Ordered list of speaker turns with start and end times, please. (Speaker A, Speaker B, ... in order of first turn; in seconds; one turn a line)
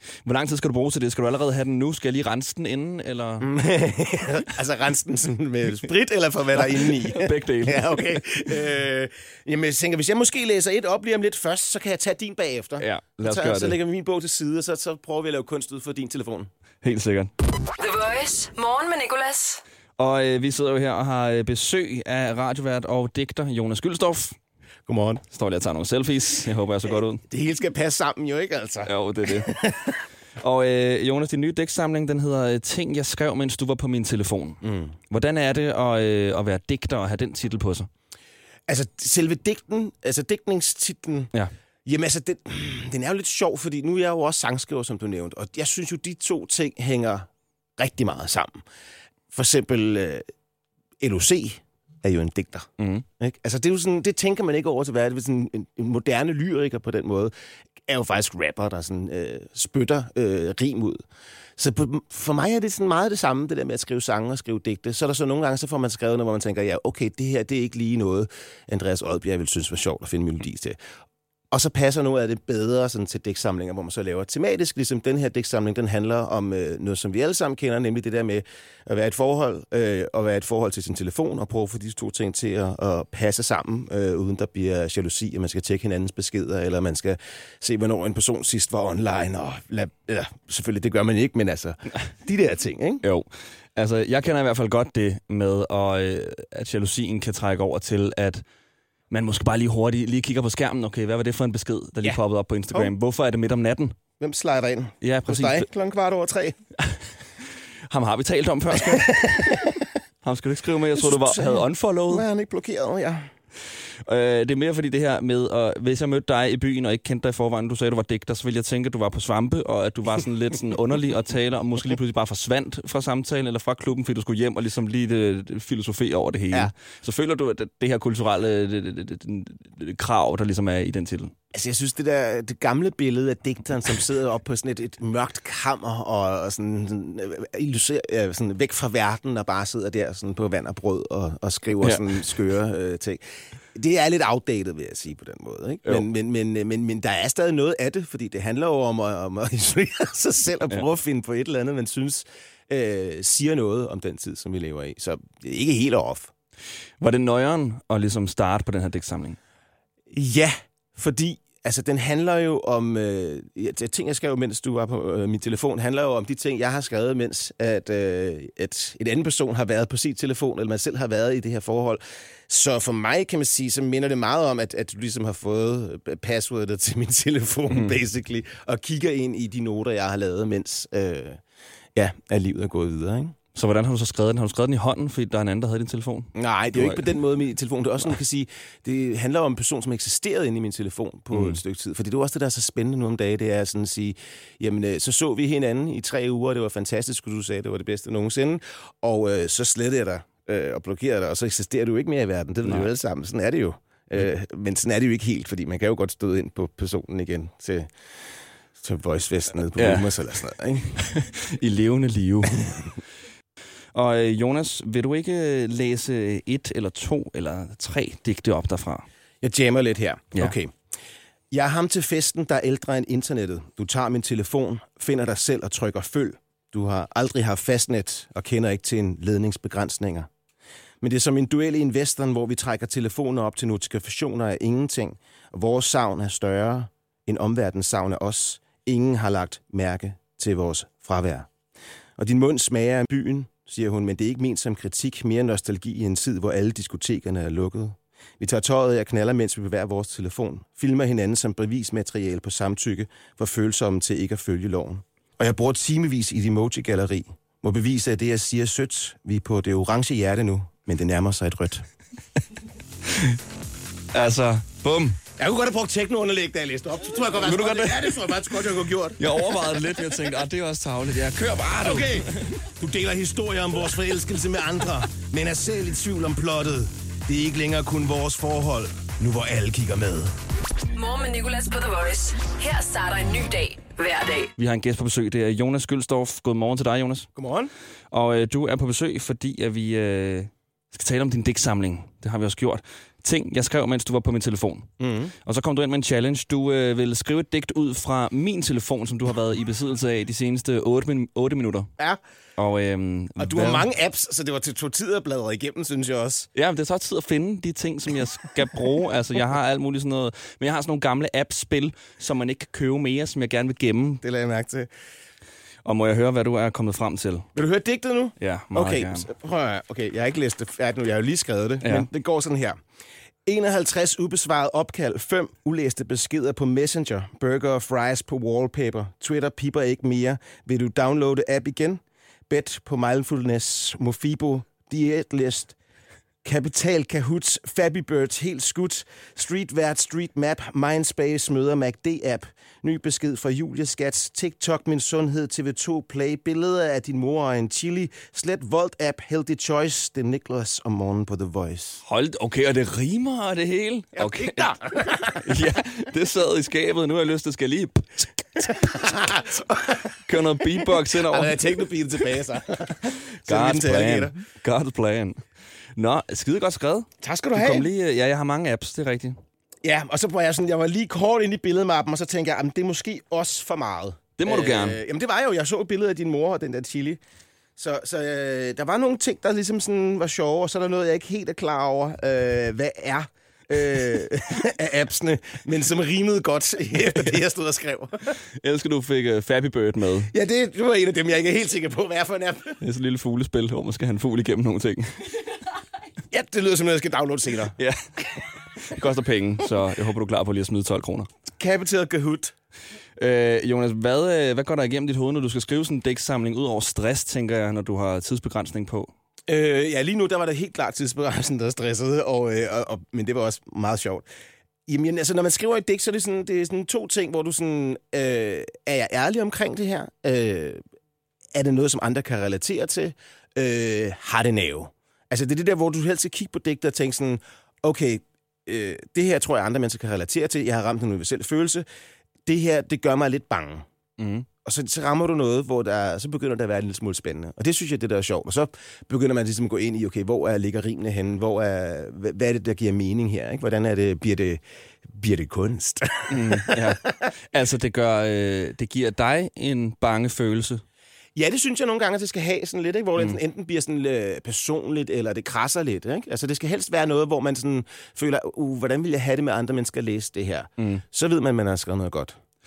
Speaker A: 0.2-3.5
Speaker B: 3.4-16.5
Speaker A: 6.6-8.5
Speaker A: 12.8-13.8
Speaker A: 16.8-17.3
Speaker C: 17.8-19.6
Speaker A: 20.0-24.4
Speaker B: 24.9-25.2
Speaker A: 25.3-27.2
Speaker B: 27.3-30.0
Speaker A: 28.9-29.6
Speaker A: 30.4-37.9
Speaker B: 34.6-35.0
Speaker B: 38.7-41.3
Speaker B: 41.9-48.6
Speaker B: 49.3-50.3
Speaker B: 51.0-57.3
Speaker A: 52.8-53.0
Speaker B: 57.9-61.0
Speaker B: 61.6-70.8
Speaker B: 71.5-93.0
Speaker A: 93.0-98.4
Speaker A: 99.1-104.0
Speaker B: 104.2-106.6
Speaker A: 105.0-105.7
Speaker A: 107.9-109.6
Speaker B: 108.7-109.8
Speaker A: 110.2-112.2
Speaker B: 111.0-113.3
Speaker A: 114.1-131.3
Speaker B: 131.5-156.3
Speaker A: 157.0-159.4
Speaker B: 160.1-181.4
Speaker B: 181.9-183.4
Speaker A: 183.6-187.1
Speaker B: 186.3-207.9
Speaker A: 191.3-191.6
Speaker B: 208.8-210.9
Speaker A: 209.8-210.1
Speaker A: 211.0-212.8
Speaker A: 213.9-219.1
Speaker B: 219.4-220.7
Speaker B: 221.5-230.3
Speaker B: 231.0-241.5
Speaker B: 242.2-261.9
Speaker A: 263.1-263.4
Speaker A: 264.1-265.2
Speaker B: 265.4-269.6
Speaker A: 267.4-268.2
Speaker A: 269.2-272.5
Speaker B: 271.8-280.4
Speaker C: 280.9-284.5
Speaker A: 284.6-287.3
Speaker B: 287.4-287.7
Speaker A: 288.1-294.9
Speaker B: 295.0-295.3
Speaker A: 295.4-301.9
Speaker A: 302.6-303.9
Speaker B: 303.4-306.5
Speaker A: 306.6-314.2
Speaker B: 314.2-314.9
Speaker A: 315.9-317.5
Speaker B: 317.6-322.8
Speaker A: 318.4-319.3
Speaker B: 323.5-335.8
Speaker B: 336.4-352.0
Speaker A: 352.1-354.7
Speaker B: 354.1-355.5
Speaker A: 355.3-358.7
Speaker B: 358.6-360.2
Speaker A: 360.2-361.6
Speaker B: 360.8-364.4
Speaker A: 363.5-365.4
Speaker A: 366.0-369.4
Speaker B: 367.2-367.9
Speaker B: 369.8-377.2
Speaker A: 374.4-375.0
Speaker B: 377.8-388.4
Speaker A: 388.6-390.3
Speaker B: 390.3-392.8
Speaker A: 392.8-395.1
Speaker B: 396.3-397.8
Speaker A: 398.8-401.3
Speaker B: 401.6-402.5
Speaker A: 403.2-409.1
Speaker B: 409.5-414.2
Speaker B: 414.9-420.8
Speaker B: 421.5-431.9
Speaker B: 432.5-433.9
Speaker A: 434.2-434.5
Speaker B: 434.6-447.2
Speaker A: 446.3-450.8
Speaker B: 451.4-462.4